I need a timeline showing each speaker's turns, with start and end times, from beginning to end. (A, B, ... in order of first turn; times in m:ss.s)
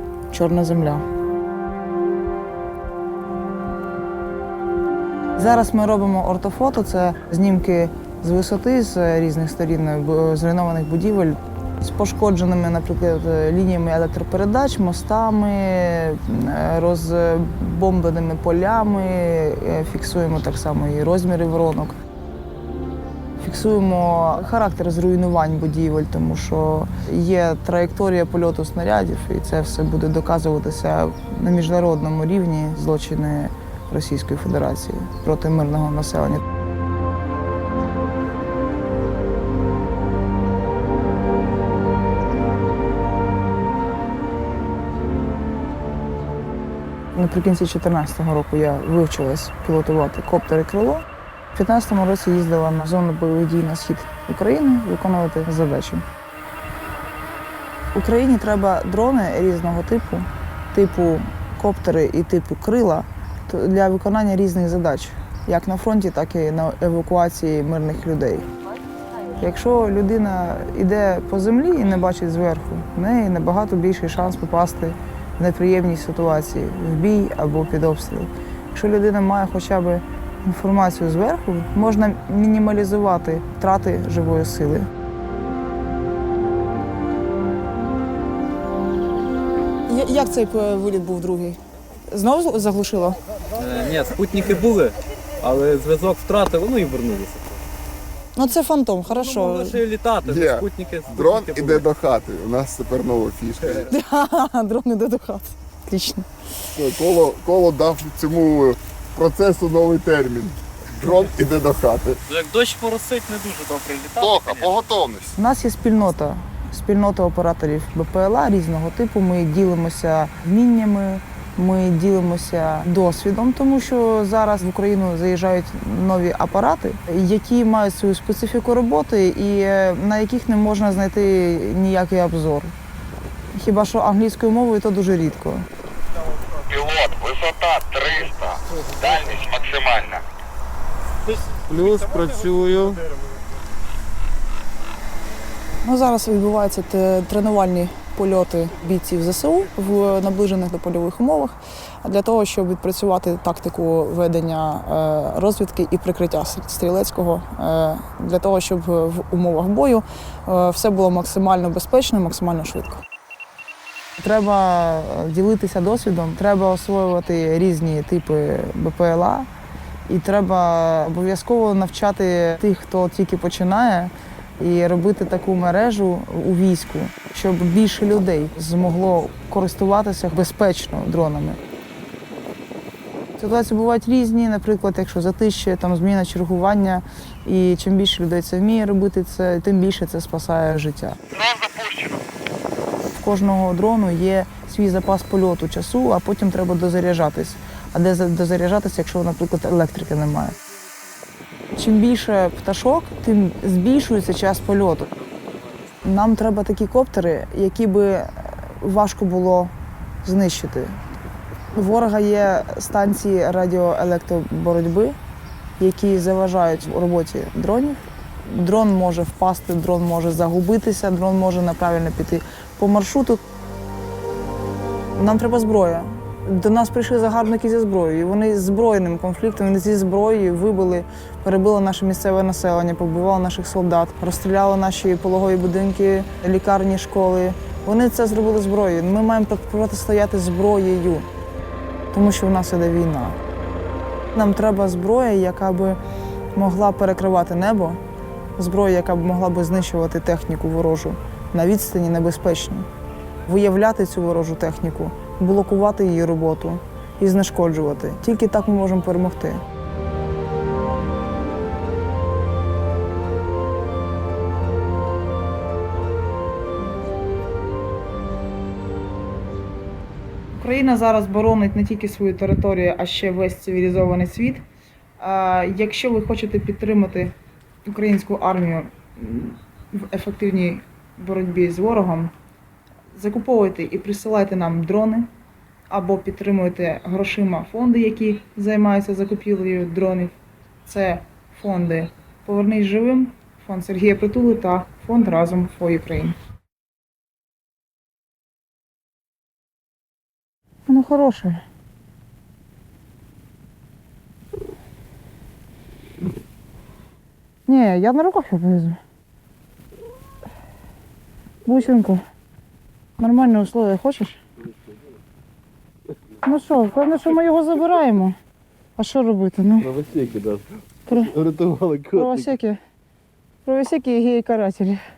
0:00.3-0:01.0 A
0:05.4-0:22.0 A
0:23.4-0:36.4 A
0:47.1-0:56.0 A
0:57.9-1:08.5 A
1:09.3-1:24.9 A
1:29.9-1:33.2 A
1:33.6-1:37.4 B
1:38.3-1:39.8 A
1:39.1-1:41.8 B
1:40.2-1:43.9 C
1:43.8-1:46.3 A
1:46.7-1:52.2 C
1:52.3-1:54.8 B
1:54.2-1:55.3 C
1:55.4-2:12.7 A
2:13.5-2:15.7 A
2:16.7-2:20.2 D
2:19.0-2:19.4 C
2:21.4-2:23.0 C
2:25.8-2:43.0 A
2:44.2-2:49.5 A
2:50.1-3:01.6 A
3:03.4-3:11.2 A
3:11.3-3:12.2 D
3:13.1-3:20.6 A
3:21.7-3:25.2 A
3:26.0-3:31.0 A
3:31.7-3:35.2 A
3:35.8-3:43.4 A
3:45.2-4:01.3 A
4:02.1-4:03.4 A
4:04.3-4:06.0 A
4:06.5-4:08.0 A
4:08.6-4:12.9 A
4:13.5-4:19.6 A
4:30.5-4:34.6 A
4:35.2-4:37.3 A
4:37.8-4:42.3 A
4:43.1-4:45.3 A
4:45.9-4:50.3 A
4:50.9-4:56.4 A
5:00.9-5:01.6 A
5:07.7-5:09.0 A
5:11.6-5:12.2 A
5:13.2-5:14.4 A
5:16.4-5:18.4 A
5:19.0-5:19.9 A
5:19.8-5:20.6 B
5:21.1-5:21.4 A
5:21.2-5:22.4 B
5:22.1-5:22.8 A
5:23.6-5:25.0 A